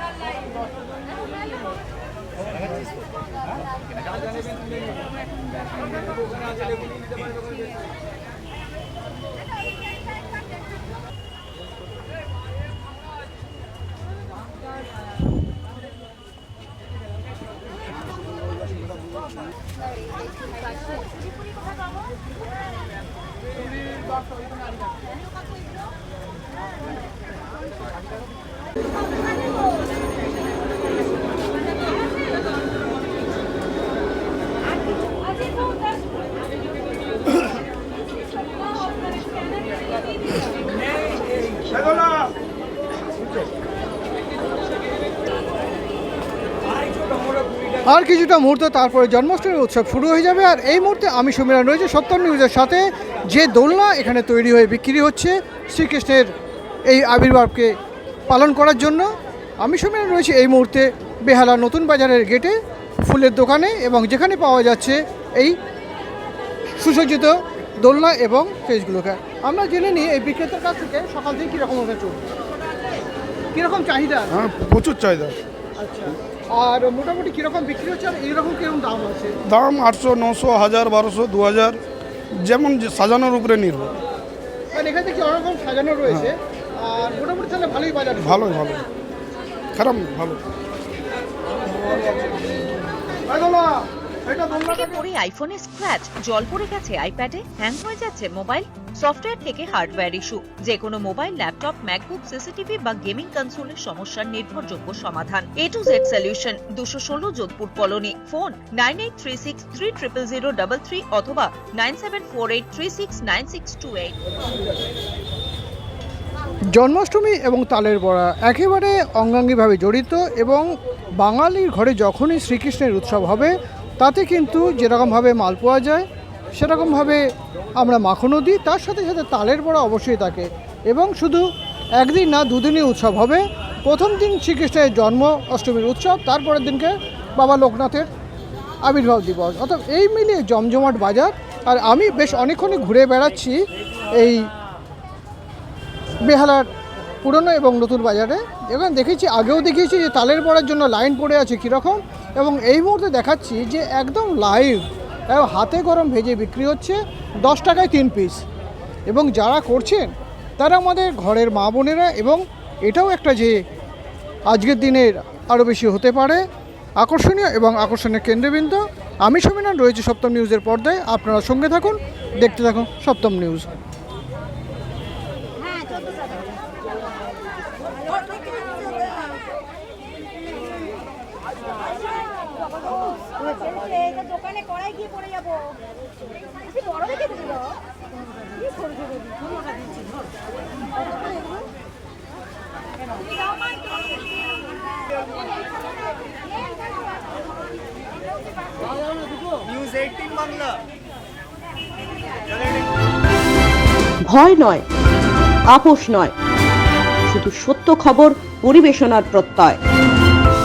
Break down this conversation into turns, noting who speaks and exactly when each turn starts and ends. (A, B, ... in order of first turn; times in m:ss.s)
0:47.8-0:56.3 A
0:56.9-0:57.7 A
0:58.3-0:59.1 A
0:59.6-1:02.6 A
1:03.1-1:05.6 A
1:06.8-1:12.3 A
1:13.5-1:14.4 A
1:14.3-1:15.4 B
1:15.8-1:19.4 A
1:19.5-1:21.8 B
1:22.3-1:23.9 B
1:24.7-1:28.5 A
1:28.2-1:28.8 B
1:29.8-1:30.4 B
1:31.8-1:32.4 B
1:33.3-1:33.7 B
1:34.4-1:54.2 C
1:56.8-2:00.6 A
2:01.2-2:06.0 A
2:06.6-2:07.2 A
2:07.8-2:11.4 A
2:12.0-2:18.1 A
2:18.8-2:23.6 A
2:24.1-2:24.5 A
2:26.2-2:26.7 A
2:27.2-2:38.4 A
2:39.1-2:43.6 A
2:44.5-2:46.4 A
2:47.0-2:53.7 A
3:24.2-3:24.9 D
3:25.7-3:26.3 D
3:27.3-3:29.8 D